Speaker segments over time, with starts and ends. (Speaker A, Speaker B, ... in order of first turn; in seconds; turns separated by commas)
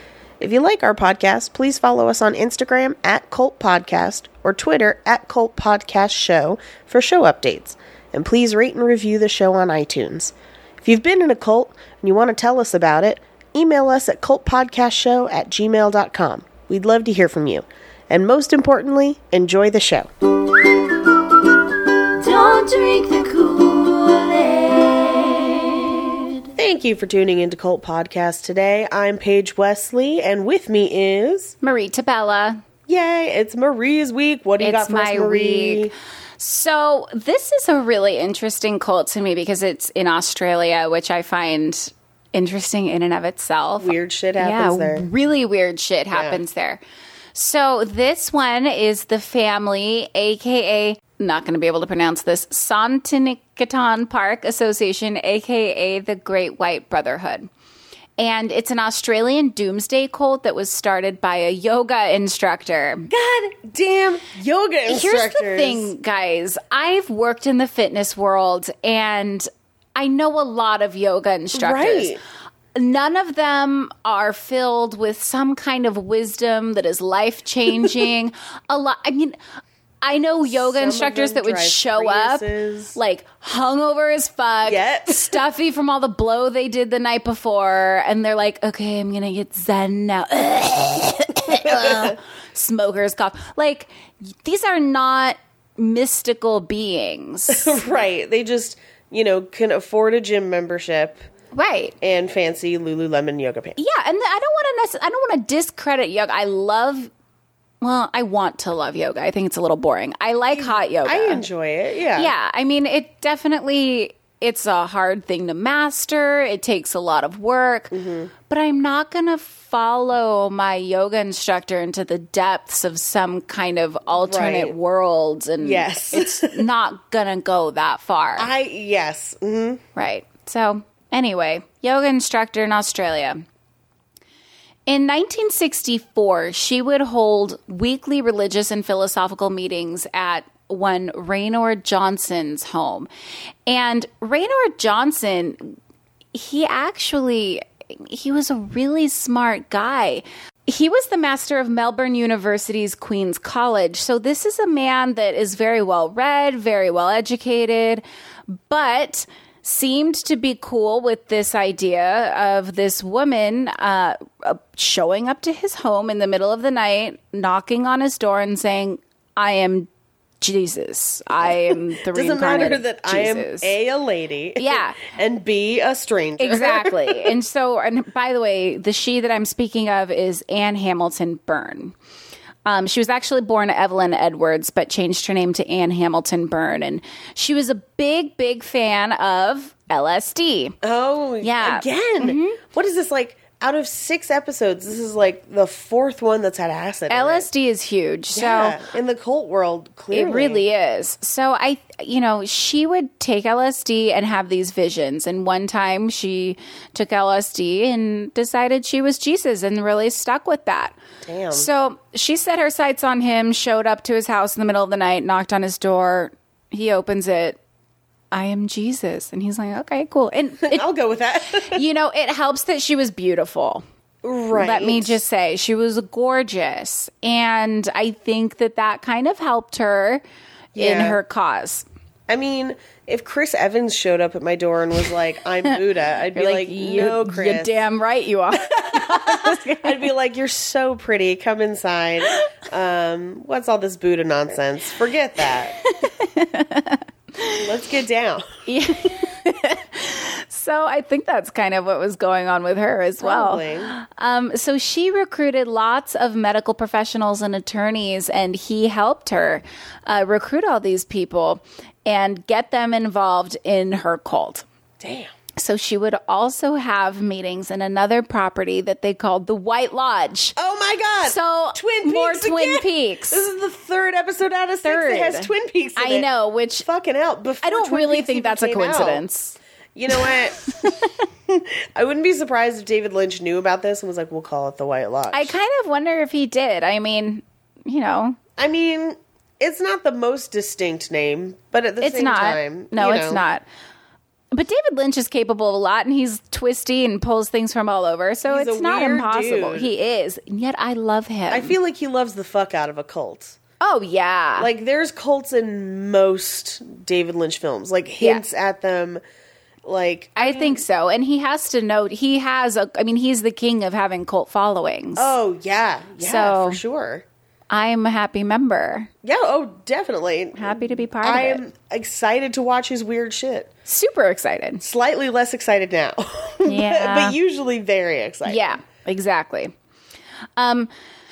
Speaker A: 0.4-20.1, Speaker B: 20.5-26.4, Speaker A: 26.6-31.5, Speaker B: 31.6-32.6, Speaker A: 32.9-35.9, Speaker B: 34.6-46.8, Speaker A: 43.8-45.1, Speaker A: 46.1-46.4, Speaker B: 47.3-57.5, Speaker B: 58.2-63.1, Speaker A: 63.1-65.9, Speaker B: 64.9-72.2, Speaker A: 71.5-72.2, Speaker B: 72.7-79.4, Speaker B: 80.0-97.8, Speaker A: 80.4-83.0, Speaker A: 84.7-85.4, Speaker A: 91.5-92.2, Speaker A: 97.5-101.2, Speaker B: 101.5-102.0, Speaker A: 102.0-103.8, Speaker B: 103.8-107.1, Speaker B: 107.8-111.4, Speaker A: 110.5-112.3, Speaker B: 112.2-117.9, Speaker A: 117.9-118.3, Speaker B: 118.5-128.5, Speaker A: 124.1-124.7, Speaker A: 125.6-126.6, Speaker A: 128.4-129.8, Speaker B: 129.9-133.4, Speaker B: 134.9-143.1, Speaker B: 143.7-145.8, Speaker B: 146.3-169.9, Speaker B: 170.4-173.7, Speaker A: 171.4-177.3, Speaker B: 174.6-175.0, Speaker B: 176.4-181.9, Speaker B: 182.6-190.8, Speaker A: 190.8-197.4, Speaker B: 191.4-192.6, Speaker B: 197.1-198.8, Speaker A: 198.3-200.6, Speaker B: 200.1-211.0, Speaker A: 211.2-211.7, Speaker B: 211.5-217.6, Speaker B: 218.3-220.8, Speaker A: 220.6-221.8, Speaker B: 221.5-223.8, Speaker A: 224.2-225.2, Speaker B: 224.5-230.2, Speaker A: 230.7-231.2, Speaker B: 230.8-231.8, Speaker A: 232.3-237.8, Speaker B: 236.3-240.1, Speaker A: 238.6-245.8, Speaker B: 245.7-247.6, Speaker A: 247.5-248.6, Speaker B: 248.7-264.6, Speaker A: 253.2-253.9, Speaker A: 265.0-265.3, Speaker B: 265.6-270.5, Speaker A: 270.6-276.3, Speaker B: 271.2-273.5, Speaker B: 274.8-276.9, Speaker A: 276.8-279.2, Speaker B: 277.6-279.6, Speaker A: 279.9-280.9, Speaker B: 280.1-281.1, Speaker A: 281.5-285.6, Speaker B: 285.3-288.4, Speaker A: 288.6-293.4, Speaker B: 292.0-293.6, Speaker B: 294.5-301.7, Speaker A: 298.4-299.9, Speaker A: 301.5-303.6, Speaker B: 303.8-304.7, Speaker A: 304.6-309.2, Speaker A: 309.8-310.8, Speaker B: 310.4-315.3, Speaker A: 315.1-317.2, Speaker B: 316.2-316.8, Speaker B: 317.7-319.1, Speaker A: 319.2-323.7, Speaker B: 320.5-321.6, Speaker B: 323.9-324.8, Speaker A: 324.8-328.7, Speaker B: 326.6-327.4, Speaker B: 328.4-329.7, Speaker B: 330.6-330.9